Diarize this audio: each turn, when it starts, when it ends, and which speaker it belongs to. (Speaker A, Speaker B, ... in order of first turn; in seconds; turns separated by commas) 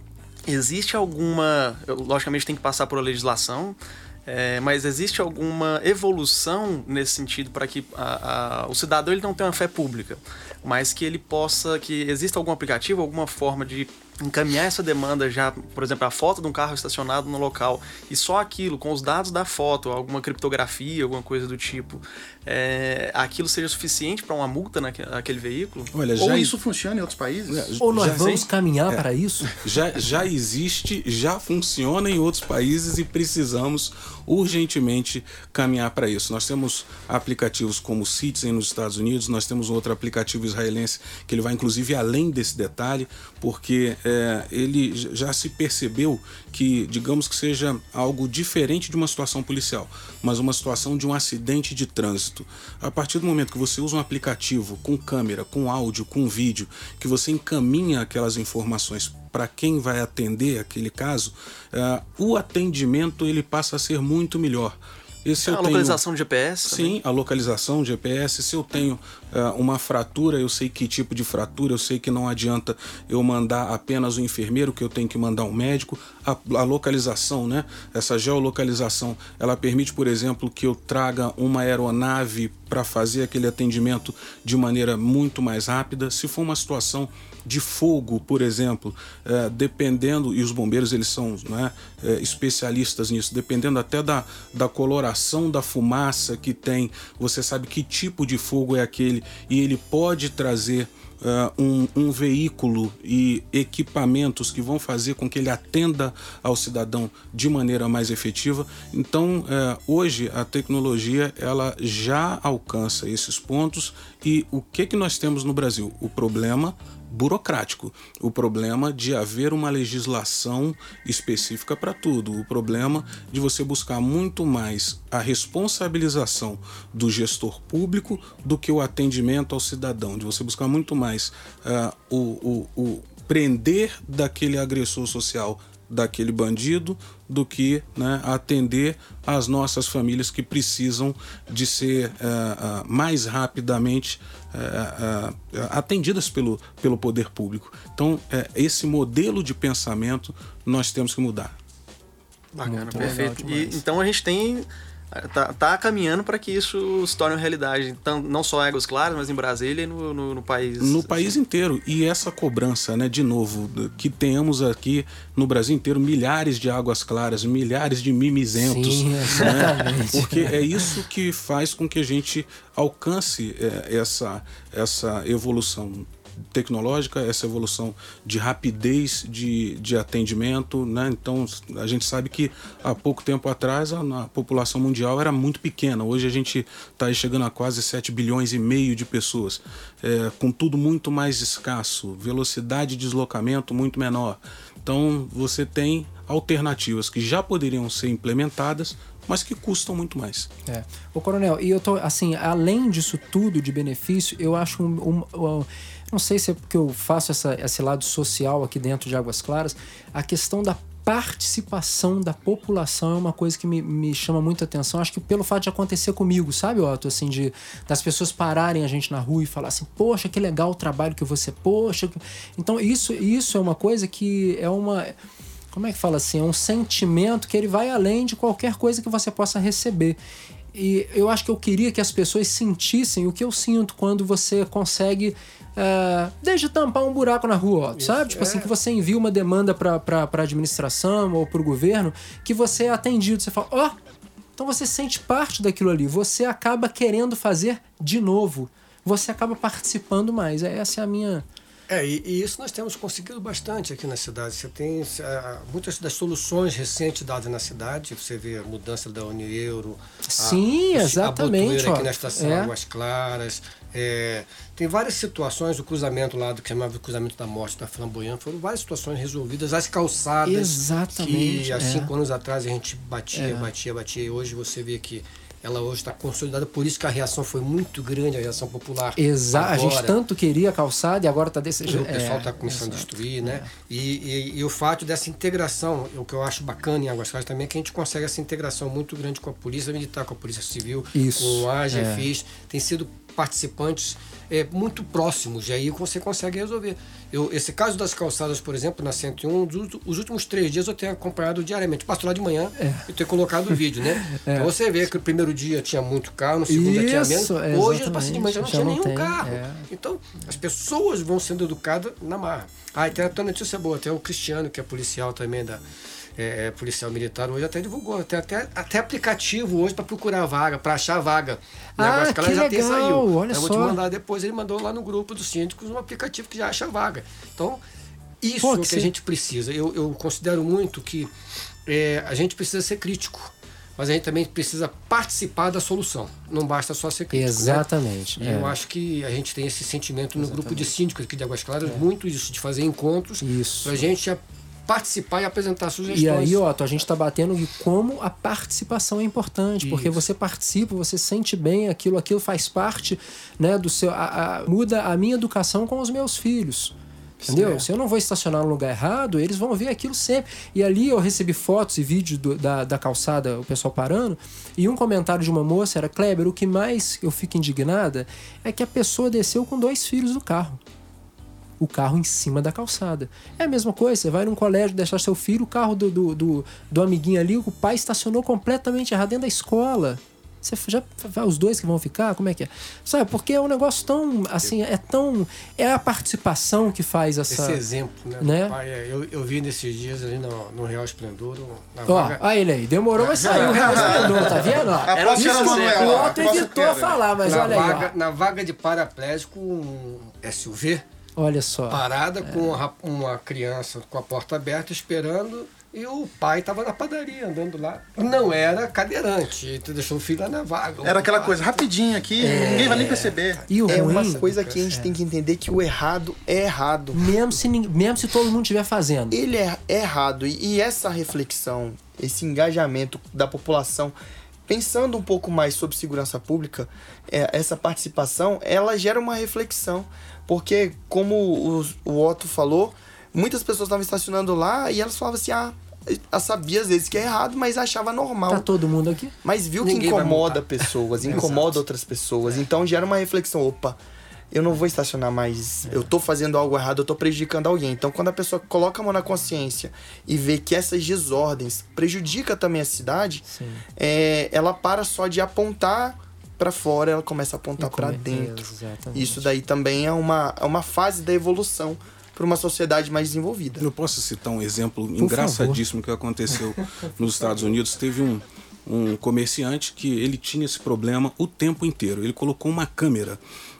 Speaker A: 0.5-25.9, Speaker B: 25.9-26.6, Speaker C: 26.1-27.8, Speaker B: 27.5-29.0, Speaker D: 27.8-29.5, Speaker A: 28.0-28.4, Speaker B: 29.6-66.0, Speaker A: 65.4-67.0, Speaker B: 66.6-151.5, Speaker A: 152.5-161.4, Speaker D: 152.6-153.8, Speaker B: 160.8-200.5, Speaker D: 168.5-170.9, Speaker D: 200.7-225.1, Speaker D: 225.7-230.2, Speaker D: 230.7-243.9, Speaker E: 237.9-238.7, Speaker D: 244.6-251.4, Speaker E: 251.9-280.2, Speaker D: 260.2-262.7, Speaker D: 270.4-272.1, Speaker D: 273.3-273.7, Speaker D: 279.1-283.7, Speaker E: 281.9-315.8, Speaker D: 291.1-292.3, Speaker D: 302.8-303.1, Speaker D: 303.7-304.7, Speaker D: 306.7-309.9, Speaker E: 316.4-327.8, Speaker D: 322.0-324.0, Speaker E: 328.4-331.3, Speaker D: 328.6-329.1, Speaker E: 331.9-337.9, Speaker D: 337.3-338.7, Speaker E: 338.4-346.6, Speaker D: 340.4-340.9, Speaker D: 343.4-344.0, Speaker D: 346.1-356.9, Speaker E: 349.8-350.2, Speaker F: 357.4-357.8, Speaker D: 357.5-370.8, Speaker D: 371.8-387.8, Speaker E: 387.5-392.4, Speaker D: 388.4-388.8, Speaker D: 392.1-398.1, Speaker E: 393.2-394.8, Speaker C: 393.4-397.3, Speaker A: 395.1-396.4, Speaker E: 395.9-396.6, Speaker E: 397.4-401.0, Speaker D: 401.4-402.8, Speaker E: 401.8-411.9, Speaker C: 411.0-413.6, Speaker D: 412.4-413.1, Speaker E: 412.4-414.8, Speaker D: 413.7-415.1, Speaker F: 413.9-417.3, Speaker D: 417.1-419.4, Speaker F: 419.3-424.1, Speaker F: 424.7-438.7, Speaker D: 438.5-439.3, Speaker F: 439.4-444.0, Speaker E: 439.8-441.8, Speaker D: 441.3-441.6, Speaker F: 444.5-453.4, Speaker D: 453.4-453.8, Speaker F: 453.9-463.9, Speaker D: 457.8-459.4, Speaker B: 463.8-473.4, Speaker D: 465.2-465.8